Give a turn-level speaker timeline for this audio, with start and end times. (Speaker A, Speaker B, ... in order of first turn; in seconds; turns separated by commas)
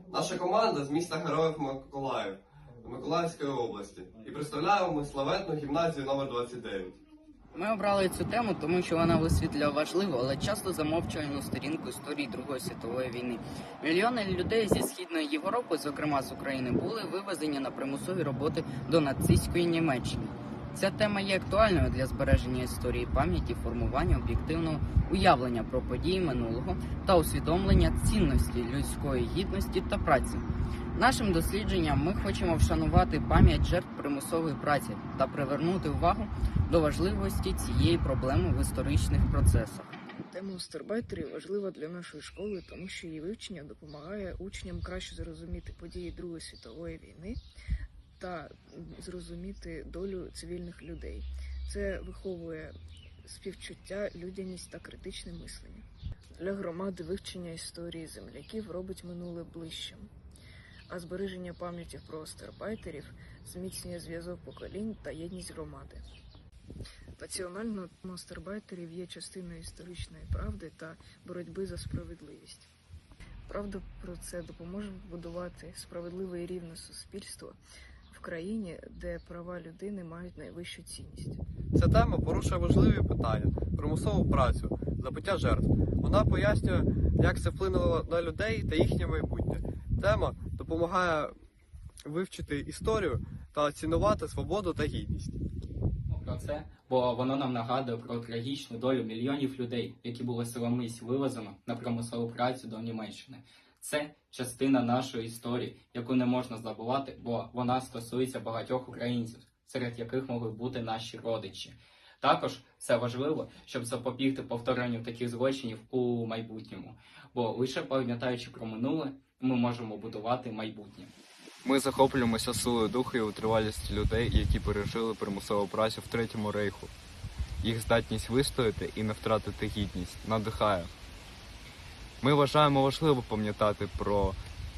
Speaker A: 0.1-7.0, Speaker B: 7.5-40.0, Speaker C: 40.2-47.4, Speaker C: 48.2-52.7, Speaker C: 53.2-55.8, Speaker C: 56.4-60.1, Speaker C: 60.9-66.0, Speaker C: 67.2-72.7, Speaker C: 73.5-77.6, Speaker C: 78.1-81.4, Speaker A: 81.7-91.3, Speaker A: 92.0-95.4, Speaker D: 96.1-121.1, Speaker E: 121.6-126.9, Speaker E: 127.6-130.9, Speaker E: 132.2-134.4